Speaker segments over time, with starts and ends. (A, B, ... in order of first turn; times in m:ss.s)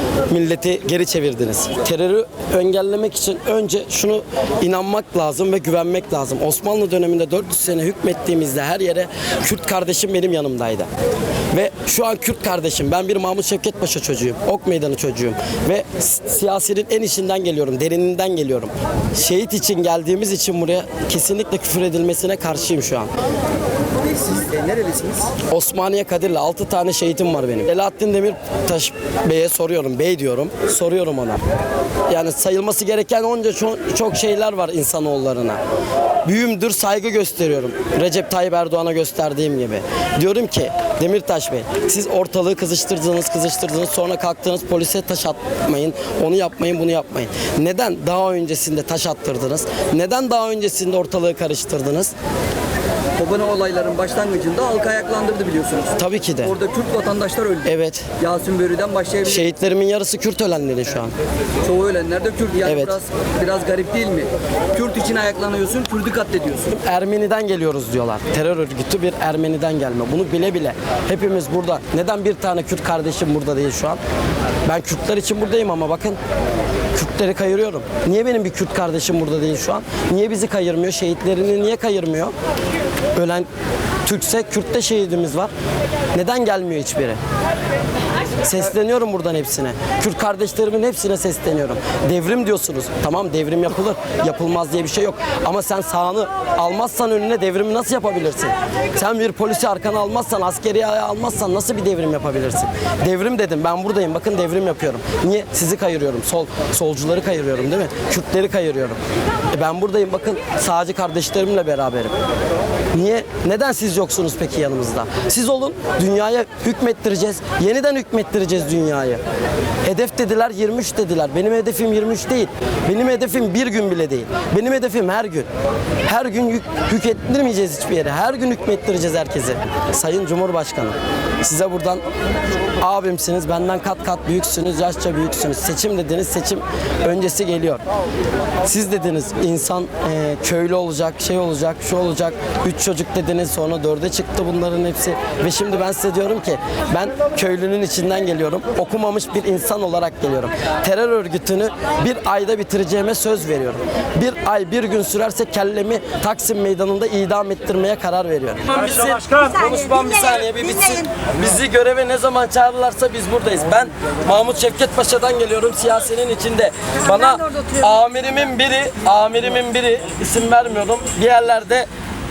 0:00.3-0:10.9 A
0:11.5-0:23.1 A
0:24.2-0:25.3 B
0:25.5-0:31.4 A
0:32.1-0:35.6 A
0:36.2-0:52.1 A
0:53.2-0:59.5 B
0:56.0-0:56.5 A
0:57.6-0:58.1 A
0:59.2-1:01.1 A
1:01.6-1:06.7 B
1:02.6-1:03.0 A
1:06.7-1:14.0 A
1:14.6-1:16.2 A
1:16.9-1:22.3 A
1:23.1-1:23.5 A
1:24.0-1:25.5 A
1:26.1-1:27.2 A
1:28.4-1:49.0 A
1:49.5-1:52.1 A
1:52.9-1:59.2 A
1:59.8-2:05.5 A
2:06.0-2:12.0 A
2:12.8-2:17.8 A
2:18.6-2:51.9 A